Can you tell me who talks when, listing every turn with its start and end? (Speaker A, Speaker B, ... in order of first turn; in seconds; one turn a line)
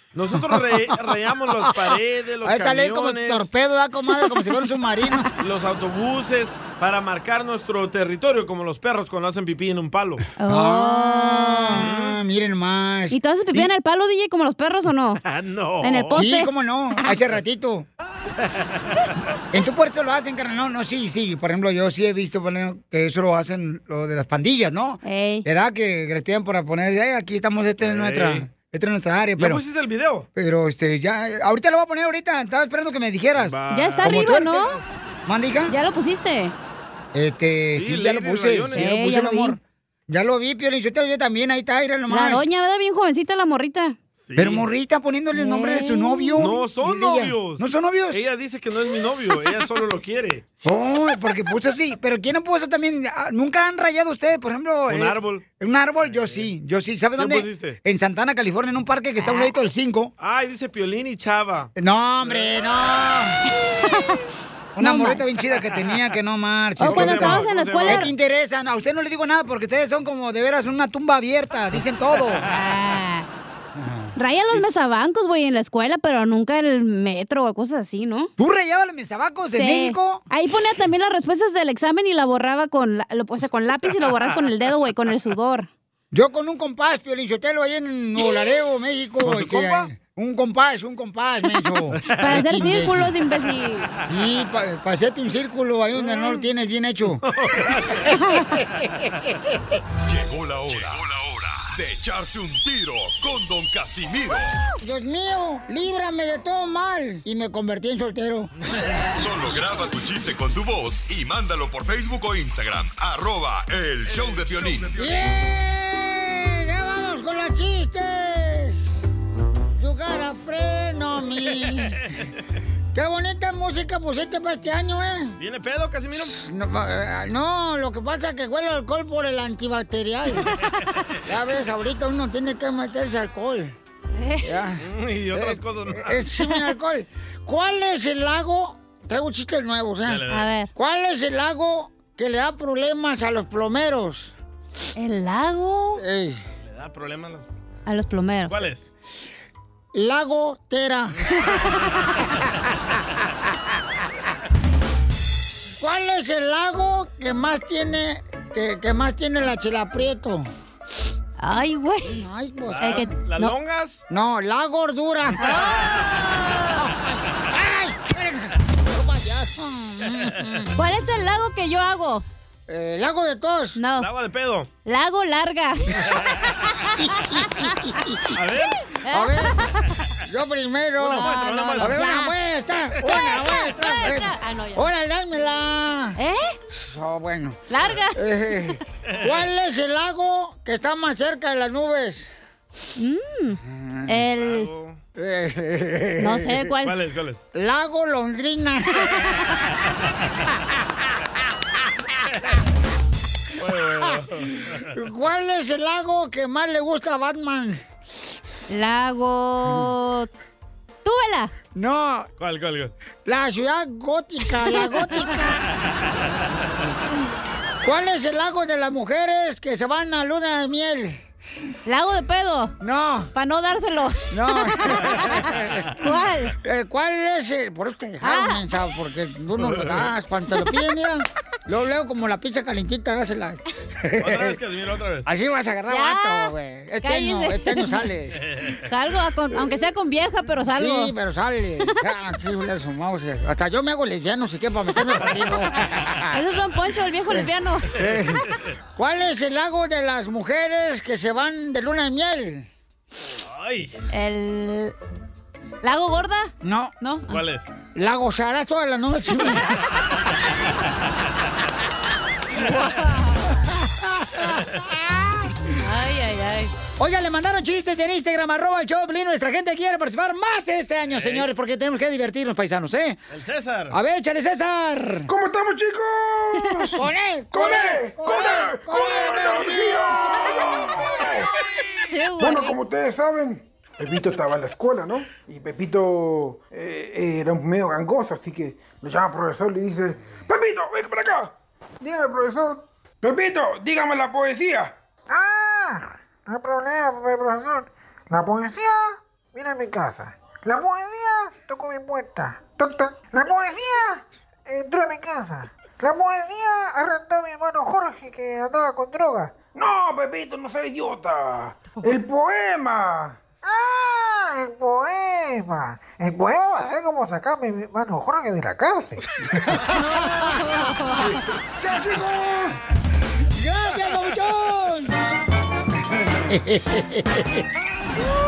Speaker A: 0.1-3.5
Speaker B: 2.4-5.3
Speaker A: 5.4-10.2
Speaker C: 10.4-11.9
Speaker B: 10.5-13.7
Speaker A: 11.7-12.2
Speaker C: 13.1-15.2
Speaker A: 15.2-16.2
Speaker C: 15.8-16.5
Speaker B: 16.1-17.9
Speaker A: 18.4-18.8
Speaker B: 19.5-29.6
Speaker C: 25.0-25.4
Speaker A: 27.8-28.5
Speaker A: 29.4-30.3
Speaker B: 30.4-35.7
Speaker A: 33.3-34.3
Speaker C: 33.7-34.8
Speaker C: 35.7-36.5
Speaker B: 37.1-42.4
Speaker A: 37.8-38.9
Speaker C: 38.7-39.6
Speaker C: 42.1-44.0
Speaker A: 44.2-44.7
Speaker B: 44.4-48.2
Speaker C: 45.3-46.4
Speaker A: 46.4-50.4
Speaker B: 50.6-60.1
Speaker A: 54.9-55.4
Speaker A: 56.0-56.5
Speaker A: 57.2-57.8
Speaker C: 59.2-59.5
Speaker A: 60.2-62.7
Speaker B: 61.8-63.4
Speaker C: 63.5-64.2
Speaker B: 64.8-72.4
Speaker C: 64.8-65.2
Speaker C: 66.8-68.1
Speaker A: 66.8-68.1
Speaker C: 72.5-73.3
Speaker C: 74.2-78.3
Speaker B: 78.4-80.2
Speaker C: 79.5-85.7
Speaker A: 84.2-84.5
Speaker B: 86.1-93.0
Speaker A: 89.2-89.9
Speaker A: 91.9-92.4
Speaker C: 92.1-93.9
Speaker B: 94.1-97.2
Speaker A: 95.9-96.4
Speaker A: 97.2-98.0
Speaker B: 98.6-99.0
Speaker D: 100.0-101.1
Speaker D: 101.6-104.5
Speaker B: 104.8-108.5
Speaker D: 109.2-115.3
Speaker B: 115.0-118.8
Speaker B: 119.8-122.0
Speaker B: 122.9-125.3
Speaker A: 125.4-126.4
Speaker B: 126.3-130.5
Speaker B: 131.3-133.7
Speaker C: 134.2-134.5
Speaker B: 134.4-140.2
Speaker A: 134.8-136.2
Speaker A: 140.0-140.4
Speaker C: 140.3-140.7
Speaker B: 140.7-144.3
Speaker C: 145.0-146.0
Speaker B: 146.0-146.4
Speaker A: 146.6-147.5
Speaker C: 147.8-148.6
Speaker A: 148.5-148.9
Speaker B: 149.9-151.1
Speaker B: 155.8-160.4
Speaker C: 161.4-162.2
Speaker B: 162.1-163.1
Speaker A: 162.7-164.0
Speaker C: 162.8-163.5
Speaker B: 164.1-166.0
Speaker C: 165.4-165.8
Speaker B: 166.8-170.7
Speaker C: 170.7-172.2
Speaker B: 172.7-173.8
Speaker C: 173.7-174.1
Speaker A: 174.0-174.7
Speaker C: 174.8-175.9
Speaker A: 175.9-176.7
Speaker C: 176.5-177.6
Speaker B: 177.4-178.2
Speaker A: 178.3-178.8
Speaker C: 179.0-180.0
Speaker B: 179.1-179.5
Speaker B: 180.2-186.2
Speaker A: 181.0-182.0
Speaker C: 181.1-182.3
Speaker C: 183.0-184.9
Speaker C: 186.2-186.6
Speaker B: 186.8-187.6
Speaker C: 187.7-188.2
Speaker B: 188.2-192.3
Speaker A: 189.1-189.5
Speaker C: 193.0-194.7
Speaker B: 193.7-194.0
Speaker A: 194.3-195.0
Speaker B: 195.2-196.6
Speaker C: 196.2-196.9
Speaker A: 196.8-197.4
Speaker B: 197.5-199.1
Speaker A: 203.6-204.9
Speaker B: 204.9-207.8
Speaker C: 208.7-210.3
Speaker C: 211.0-211.5
Speaker B: 211.8-212.3
Speaker A: 212.4-212.9
Speaker B: 213.2-215.6
Speaker B: 217.8-221.2
Speaker C: 221.8-222.7
Speaker B: 222.8-223.3
Speaker C: 223.3-226.6
Speaker B: 224.3-225.9
Speaker B: 226.6-234.6
Speaker C: 228.2-228.6
Speaker A: 229.6-230.1
Speaker A: 234.2-235.3
Speaker B: 235.2-238.4
Speaker C: 235.9-238.1
Speaker A: 238.4-238.8
Speaker C: 238.8-241.1
Speaker B: 240.7-246.4
Speaker C: 246.3-247.9
Speaker B: 248.0-248.4
Speaker A: 248.0-248.6
Speaker B: 248.9-252.7
Speaker A: 253.4-253.9
Speaker C: 254.1-254.9
Speaker C: 255.8-257.4
Speaker B: 256.6-256.9
Speaker A: 257.3-257.6
Speaker B: 257.9-259.8
Speaker C: 262.6-263.5
Speaker B: 264.2-264.6
Speaker C: 265.7-266.7
Speaker B: 267.0-273.2
Speaker A: 271.1-271.5
Speaker A: 273.3-274.0
Speaker B: 273.9-275.3
Speaker E: 275.3-281.5
Speaker B: 276.9-280.1
Speaker C: 280.4-280.7
Speaker C: 282.0-282.8
Speaker E: 282.4-319.7
Speaker C: 320.0-321.3
Speaker E: 321.2-322.8
Speaker B: 323.6-325.1
Speaker B: 326.5-327.6